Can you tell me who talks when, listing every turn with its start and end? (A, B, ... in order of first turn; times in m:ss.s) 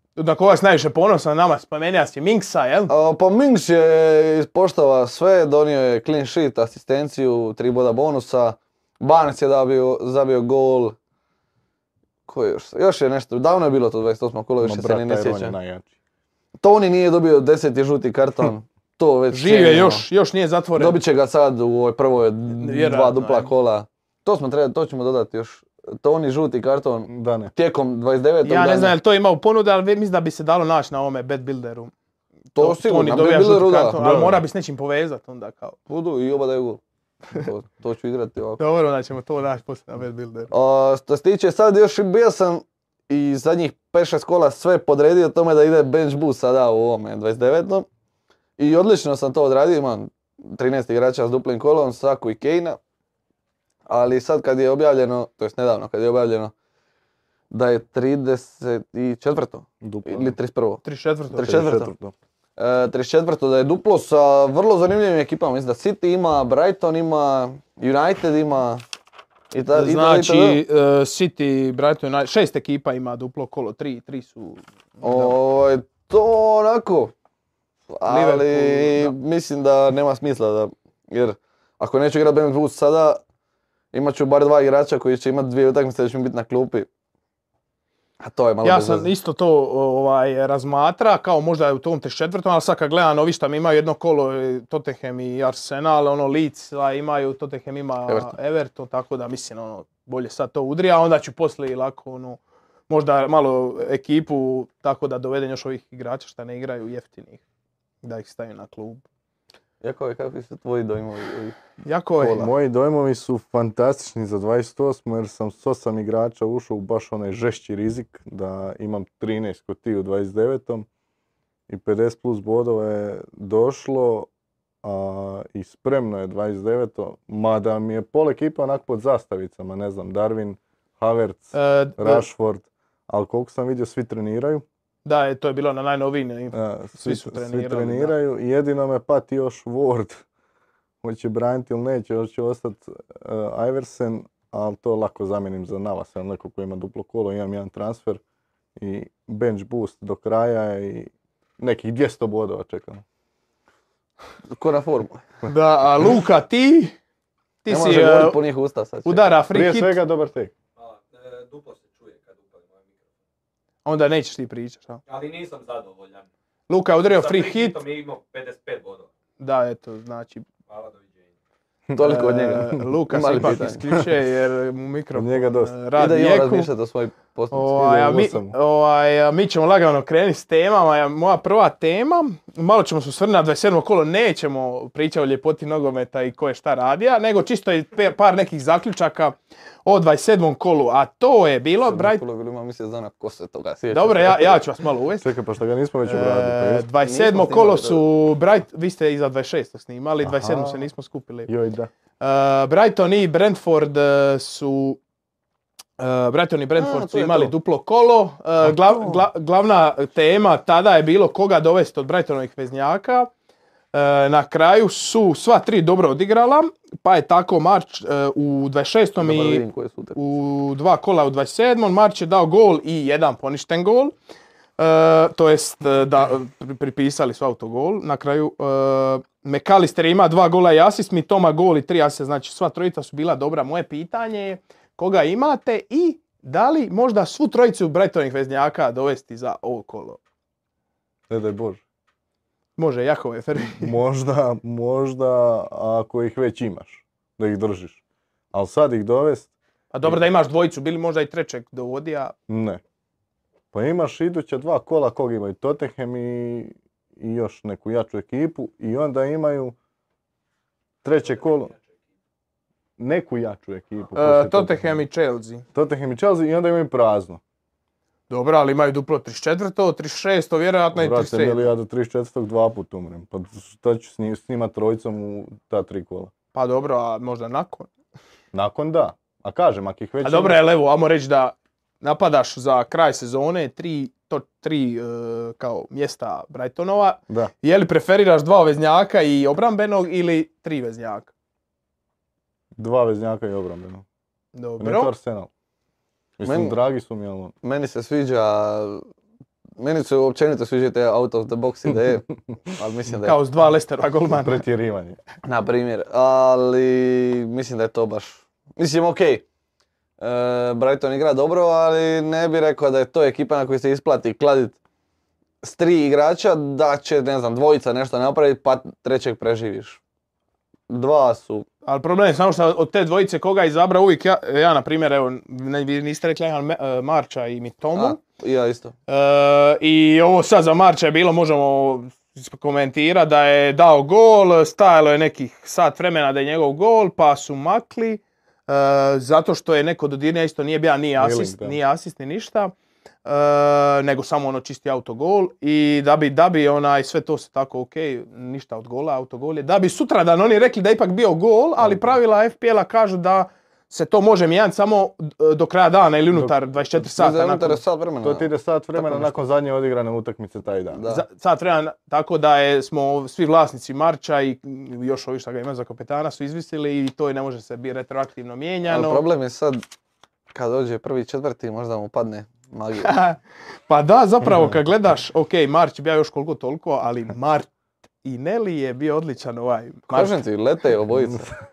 0:00.2-0:02.9 A
0:02.9-0:11.0 B
0:12.3-0:15.6 B
0:14.6-0:15.9 C
0:16.6-0:20.1 B
0:19.3-0:21.0 A
0:20.8-0:28.9 B
0:22.5-0:23.5 A
0:27.1-0:27.5 C
0:28.4-0:31.9 A
0:32.6-0:35.8 A
0:32.6-0:34.0 B
0:34.0-0:34.4 C
0:35.9-0:36.8 B
0:37.3-0:38.6 B
0:38.6-0:40.5 A
0:40.5-0:47.9 B
0:48.6-0:52.8 B
0:53.9-0:56.5 B
0:57.5-1:01.9 B
0:59.8-1:00.4 C
1:00.8-1:01.6 A
1:01.4-1:02.1 C
1:02.6-1:08.8 B
1:09.5-1:10.6 B
1:09.7-1:15.4 A
1:15.0-1:17.1 B
1:17.9-1:23.2 B
1:18.0-1:19.2 A
1:23.9-1:26.9 B
1:28.2-1:29.1 B
1:28.6-1:47.4 A
1:38.1-1:38.4 B
1:48.0-1:49.0 A
1:49.8-1:51.6 B
1:51.8-1:52.5 A
1:52.3-2:00.9 C
2:01.7-2:04.3 C
2:04.8-2:14.6 C
2:11.5-2:12.2 A
2:15.0-2:18.1 A
2:16.5-2:20.2 C
2:21.0-2:28.2 C
2:28.8-2:33.0 C
2:34.5-2:35.2 B
2:35.4-2:37.0 A
2:37.6-2:38.4 A
2:37.7-2:39.3 B
2:39.0-2:40.0 A
2:39.5-2:40.5 C
2:40.8-2:43.0 D
2:43.8-2:45.0 A
2:45.1-2:46.3 D
2:46.7-2:47.8 A
2:47.1-2:49.1 D
2:49.4-2:50.5 A
2:50.7-2:51.3 D
2:52.0-2:53.8 B
2:52.0-2:56.7 A
2:55.2-2:55.7 C
2:56.0-2:58.1 B
2:57.5-3:12.2 A
2:57.8-2:58.6 C
3:11.8-3:14.6 B
3:13.9-3:15.3 A
3:15.2-3:16.9 C
3:16.1-3:21.5 A
3:17.0-3:18.0 B
3:20.2-3:20.9 C
3:21.5-3:21.9 C
3:22.2-3:25.0 A
3:26.0-3:33.3 A
3:26.8-3:27.5 B
3:33.9-3:39.6 A
3:39.2-3:40.2 B
3:40.2-3:44.1 A
3:44.8-4:00.2 A
4:01.3-4:01.8 C
4:02.8-4:04.0 A
4:03.7-4:08.0 C
4:08.5-4:09.5 C
4:09.9-4:12.3 A
4:12.5-4:12.8 C
4:13.7-4:19.8 C
4:21.0-4:21.7 C
4:23.0-4:25.0 C
4:24.2-4:25.6 A
4:25.7-4:27.4 C
4:28.3-4:31.7 A
4:30.9-4:36.3 C
4:36.5-4:37.9 A
4:38.5-4:40.6 C
4:40.2-4:51.3 A
4:52.8-4:54.0 C
4:54.6-4:55.1 A
4:54.8-4:55.5 C
4:56.4-4:57.5 C
4:56.4-4:56.8 B
4:57.6-4:59.1 B
4:59.8-5:03.4 B
5:03.2-5:04.6 A
5:04.3-5:05.2 C
5:05.4-5:09.4 B
5:10.2-5:14.8 B
5:15.6-5:20.0 B
5:20.9-5:21.7 B
5:21.8-5:28.2 A
5:28.0-5:29.0 B
5:29.1-5:42.7 A
5:41.2-5:41.8 C
5:43.3-5:57.8 A
5:51.8-5:52.1 C
5:57.0-5:59.3 B
5:58.2-6:01.0 C
6:00.9-6:01.2 B
6:01.1-6:09.2 A
6:08.9-6:09.8 B
6:10.5-6:13.2 B
6:13.0-6:17.7 A
6:18.2-6:20.3 A
6:20.1-6:21.5 B